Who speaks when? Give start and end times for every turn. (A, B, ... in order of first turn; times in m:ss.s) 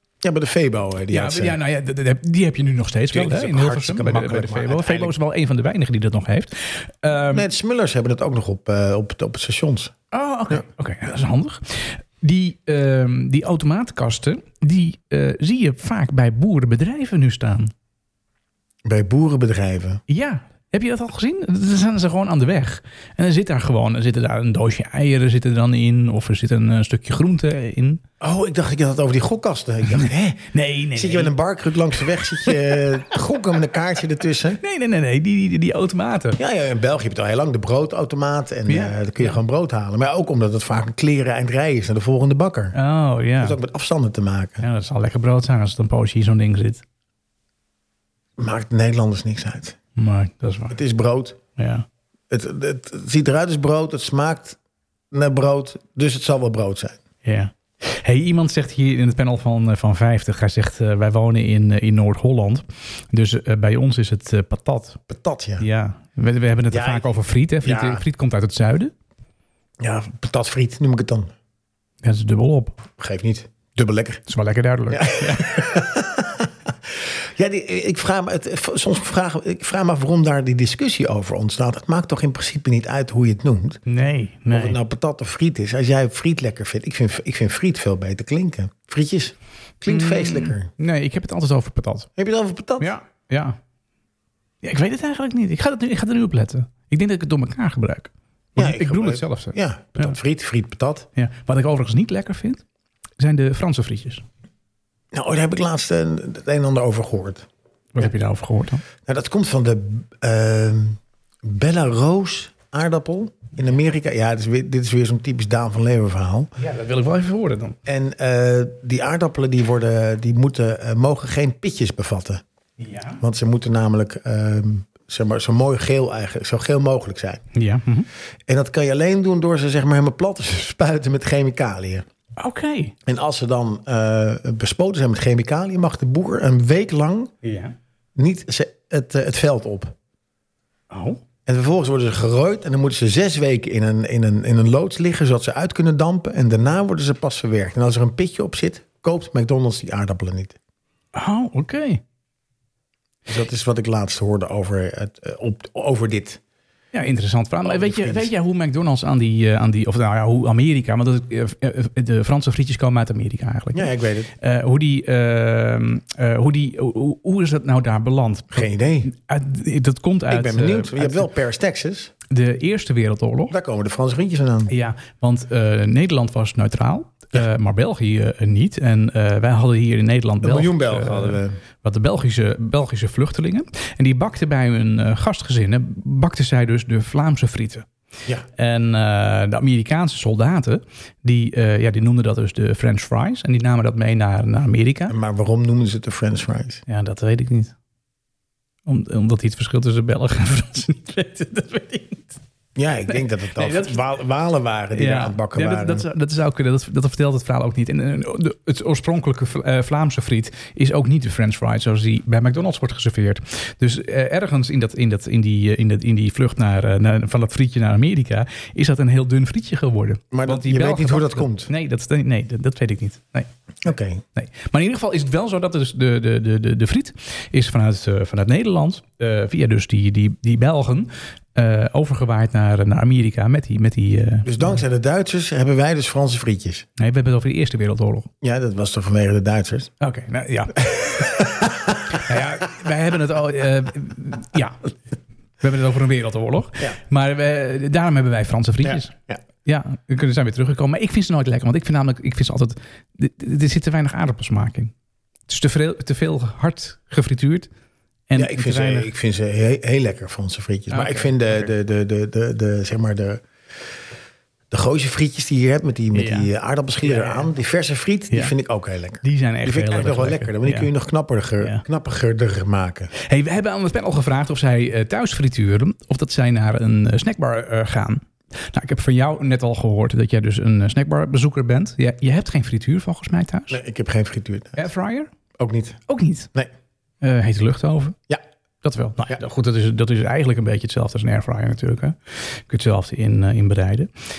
0:00.2-0:01.6 A
0:01.1-0:07.5 B
0:03.1-0:05.2 A
0:07.3-0:09.9 A
0:10.1-0:17.7 B
0:18.8-0:20.0 A
0:20.1-0:28.0 B
0:28.2-0:34.6 A
0:29.9-0:31.3 B
0:32.4-0:32.8 B
0:34.6-0:36.4 B
0:36.4-0:42.8 A
0:38.7-0:39.4 B
0:42.7-0:43.6 B
0:43.4-0:44.6 A
0:44.6-0:46.8 B
0:48.4-0:49.8 A
0:50.0-0:50.8 B
0:50.7-0:51.4 A
0:51.6-0:51.9 B
0:52.3-0:54.6 A
0:55.1-0:57.0 A
0:57.2-1:05.0 B
1:05.1-1:05.7 A
1:05.6-1:08.9 B
1:06.7-1:08.0 A
1:09.8-1:11.3 A
1:12.0-1:12.8 B
1:13.0-1:14.2 A
1:14.3-1:15.7 B
1:14.9-1:23.8 A
1:23.9-1:24.8 B
1:24.5-1:30.7 A
1:29.9-1:32.1 B
1:32.2-1:32.9 A
1:32.8-1:33.6 B
1:34.6-1:40.2 B
1:38.6-1:41.1 A
1:41.2-1:42.6 B
1:43.2-1:44.2 B
1:45.1-1:47.5 A
1:48.0-1:48.8 B
1:49.0-1:56.5 A
1:56.6-1:57.8 B
1:57.9-2:02.4 A
2:02.8-2:03.2 B
2:03.2-2:07.4 A
2:07.5-2:08.1 B
2:08.5-2:12.0 A
2:12.4-2:12.9 B
2:13.1-2:17.3 A
2:17.4-2:17.8 B
2:18.2-2:20.0 A
2:20.9-2:21.2 B
2:21.5-2:30.6 A
2:31.1-2:32.0 B
2:33.3-2:36.4 A
2:36.9-2:51.3 B
2:37.6-2:38.3 A
2:43.7-2:44.3 A
2:48.5-2:49.1 A
2:50.3-2:52.1 A
2:52.3-2:53.6 B
2:53.5-2:54.7 A
2:54.7-3:07.9 B
3:00.4-3:01.6 A
3:08.6-3:15.2 B
3:15.1-3:16.8 A
3:16.9-3:17.8 B
3:18.9-3:22.4 B
3:22.8-3:26.0 A
3:23.1-3:24.0 B
3:24.9-3:43.5 B
3:40.3-3:41.7 A
3:43.8-3:44.2 A
3:44.4-3:54.6 B
3:54.4-3:56.9 A
3:57.0-3:58.3 B
3:58.4-3:59.9 A
4:00.0-4:04.9 B
4:01.2-4:02.2 A
4:05.6-4:09.1 B
4:08.8-4:09.4 A
4:09.6-4:14.9 B
4:15.5-4:17.7 B
4:18.3-4:19.1 B
4:18.4-4:23.4 A
4:20.9-4:21.7 B
4:24.7-4:33.1 A
4:26.1-4:26.5 B
4:27.0-4:27.5 B
4:29.2-4:30.9 B
4:31.6-4:31.8 B
4:33.2-4:43.8 B
4:43.7-4:44.9 A
4:44.8-4:45.3 B
4:45.6-4:46.0 A
4:46.1-4:46.5 B
4:47.2-4:48.2 B
4:48.8-4:54.1 B